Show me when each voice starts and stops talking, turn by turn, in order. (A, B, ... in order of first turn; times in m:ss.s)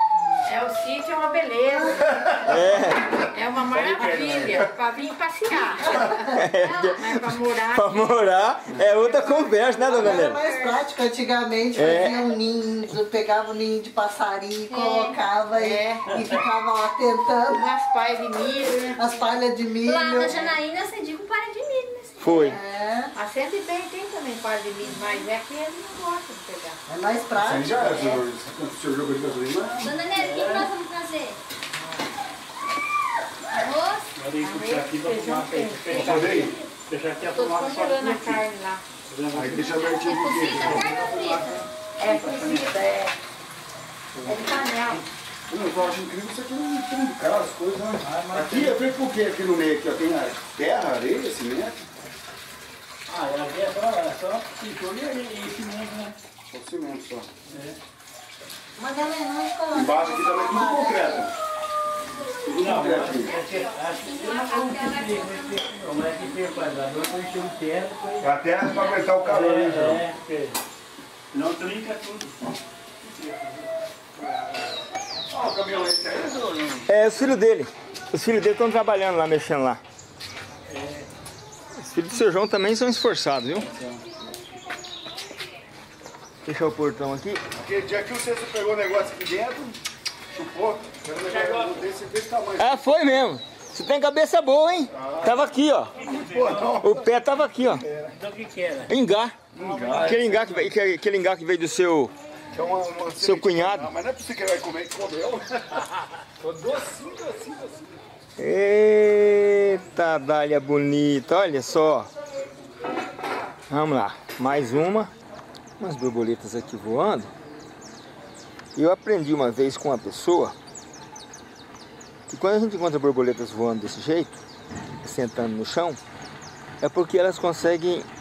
0:00.4-0:02.4 A
0:02.4-0:03.2 B
0:03.2-0:08.0 A
0:03.8-0:04.5 C
0:06.0-0:10.4 B
0:09.9-0:17.6 D
0:11.8-0:12.3 B
0:14.8-0:16.1 A
0:17.5-0:19.0 A
0:19.0-0:20.4 D
0:19.8-0:22.5 E
0:22.2-0:22.6 B
0:22.5-0:23.1 D
0:23.1-0:26.8 A
0:26.9-0:28.2 D
0:27.4-0:29.9 F
0:29.8-0:31.4 E
0:30.1-0:30.7 C
0:33.5-0:34.0 E
0:34.2-0:38.4 C
0:34.4-0:36.4 A
0:35.9-0:36.6 F
0:36.0-0:36.4 E
0:37.2-0:38.8 A
0:39.1-0:39.8 C
0:39.3-0:40.9 F
0:39.8-0:41.6 E
0:40.7-0:42.8 C
0:42.0-0:43.1 A
0:44.2-0:45.0 A
0:45.5-0:51.9 F
0:48.0-0:48.8 C
0:53.1-0:56.2 C
0:56.5-0:57.3 F
0:57.5-0:57.8 C
0:58.8-1:01.3 D
0:59.7-1:01.3 F
1:02.4-1:03.3 F
1:02.5-1:08.3 C
1:03.3-1:05.5 E
1:08.2-1:10.0 F
1:09.2-1:10.6 C
1:11.3-1:12.4 C
1:14.2-1:14.5 C
1:15.3-1:16.9 F
1:16.9-1:19.8 B
1:20.7-1:21.0 C
1:21.7-1:23.7 B
1:23.7-1:24.0 F
1:26.4-1:27.4 B
1:27.6-1:29.8 F
1:30.3-1:32.8 F
1:31.3-1:31.8 C
1:32.6-1:35.9 B
1:34.9-1:35.4 F
1:36.0-1:37.1 F
1:36.0-1:36.8 C
1:36.8-1:37.8 B
1:37.6-1:38.1 F
1:38.2-1:38.9 C
1:38.9-1:39.4 B
1:39.5-1:40.7 F
1:39.6-1:40.2 C
1:40.0-1:42.1 B
1:42.5-1:45.8 F
1:43.2-1:43.9 B
1:46.4-1:48.0 F
1:48.4-1:52.1 B
1:53.7-1:55.1 B
1:55.8-1:57.3 B
1:58.8-2:00.6 B
2:02.3-2:04.4 B
2:05.0-2:06.0 B
2:06.8-2:08.1 B